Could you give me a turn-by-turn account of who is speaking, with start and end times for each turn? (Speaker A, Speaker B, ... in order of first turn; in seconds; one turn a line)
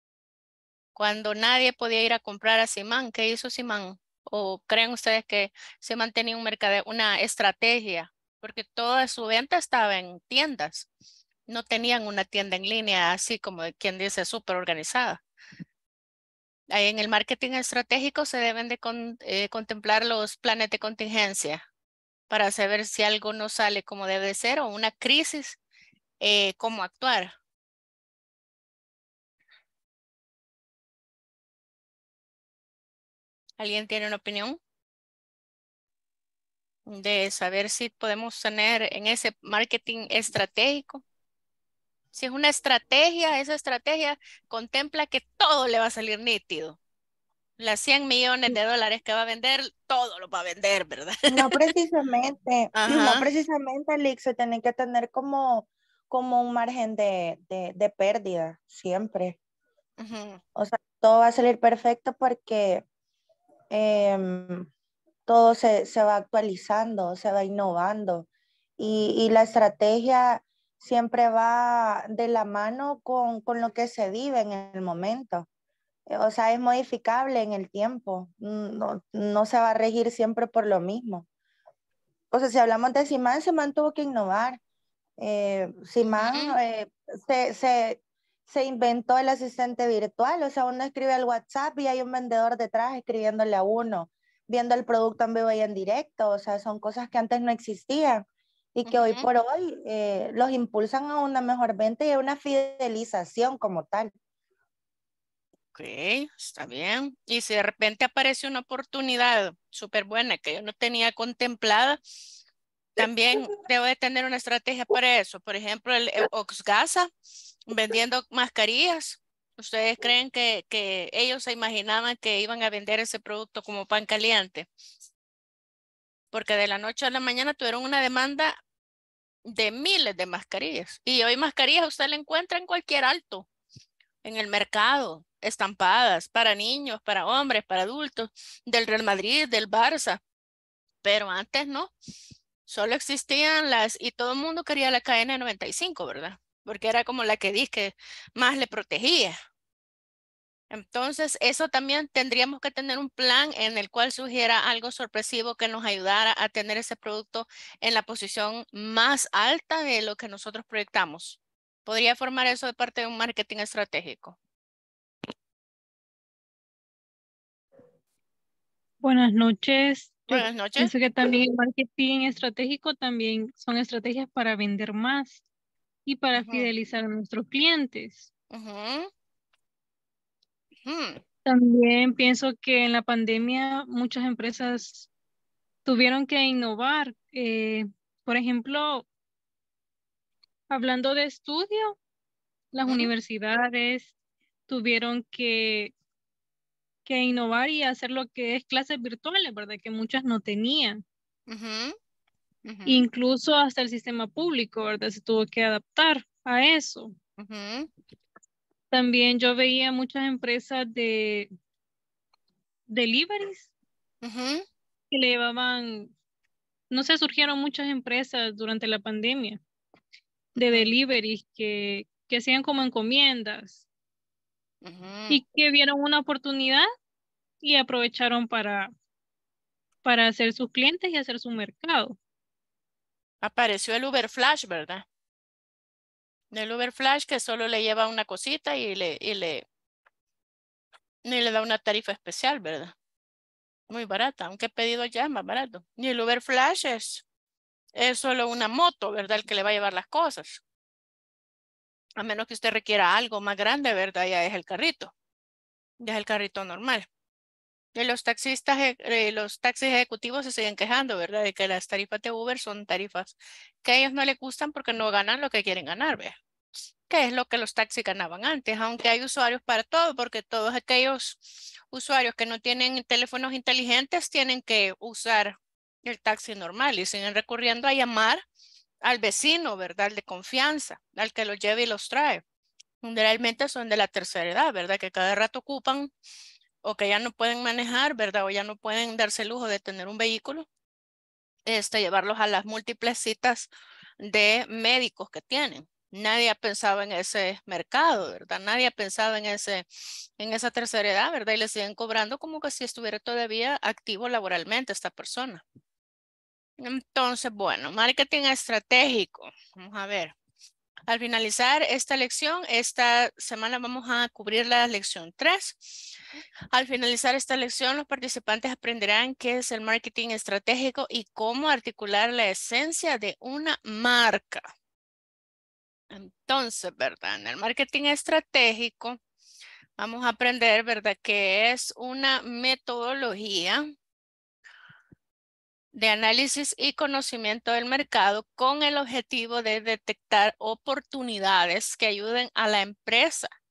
Speaker A: 0.9-10.9
Speaker A: 11.5-15.2
Speaker A: 16.7-21.6
Speaker A: 22.3-25.6
Speaker A: 26.2-27.3
Speaker A: 33.6-34.6
Speaker A: 36.9-41.0
Speaker A: 42.1-46.8
Speaker A: 47.6-51.7
Speaker B: 51.3-59.4
Speaker A: 52.7-53.2
Speaker A: 60.0-60.4
Speaker B: 60.5-62.8
Speaker B: 63.7-64.7
Speaker B: 65.3-68.3
Speaker B: 68.8-75.5
Speaker B: 76.1-81.2
Speaker B: 82.3-84.6
Speaker B: 85.2-98.2
Speaker A: 86.2-86.6
Speaker B: 98.7-104.1
Speaker A: 98.8-99.3
Speaker A: 105.7-112.0
Speaker A: 113.0-117.1
Speaker A: 117.7-124.7
Speaker A: 126.3-128.5
Speaker A: 129.4-133.5
Speaker A: 134.2-140.2
Speaker A: 141.0-141.9
Speaker A: 142.7-149.3
Speaker A: 150.7-164.4
Speaker C: 169.0-175.4
Speaker A: 170.3-170.9
Speaker C: 176.1-178.3
Speaker A: 176.3-176.7
Speaker A: 178.5-179.1
Speaker A: 180.8-181.2
Speaker C: 181.5-185.1
Speaker C: 185.8-189.0
Speaker C: 190.7-191.9
Speaker C: 192.7-194.1
Speaker A: 192.8-193.1
Speaker C: 194.7-195.9
Speaker C: 197.1-201.0
Speaker A: 201.5-201.9
Speaker A: 202.7-203.1
Speaker C: 202.8-207.1
Speaker A: 207.4-207.9
Speaker C: 208.9-211.5
Speaker C: 212.9-213.7
Speaker A: 214.2-214.6
Speaker C: 215.1-216.1
Speaker C: 216.9-219.6
Speaker A: 220.6-220.9
Speaker C: 220.6-223.8
Speaker A: 224.8-225.4
Speaker C: 225.3-226.8
Speaker C: 227.6-228.9
Speaker C: 230.0-232.1
Speaker A: 233.4-235.0
Speaker A: 236.5-239.6
Speaker A: 241.2-242.9
Speaker A: 243.9-247.2
Speaker A: 247.9-250.6
Speaker A: 252.2-255.1
Speaker A: 256.0-257.1
Speaker A: 257.9-266.4
Speaker A: 267.1-278.4
Speaker A: 279.0-282.4
Speaker A: 283.0-286.1
Speaker A: 286.8-290.6
Speaker A: 291.6-293.7
Speaker A: 294.2-299.9
Speaker A: 300.4-305.6
Speaker A: 306.8-310.3
Speaker A: 311.1-316.1
Speaker A: 316.7-324.6
Speaker A: 326.1-329.2
Speaker A: 330.0-333.8
Speaker A: 335.9-343.5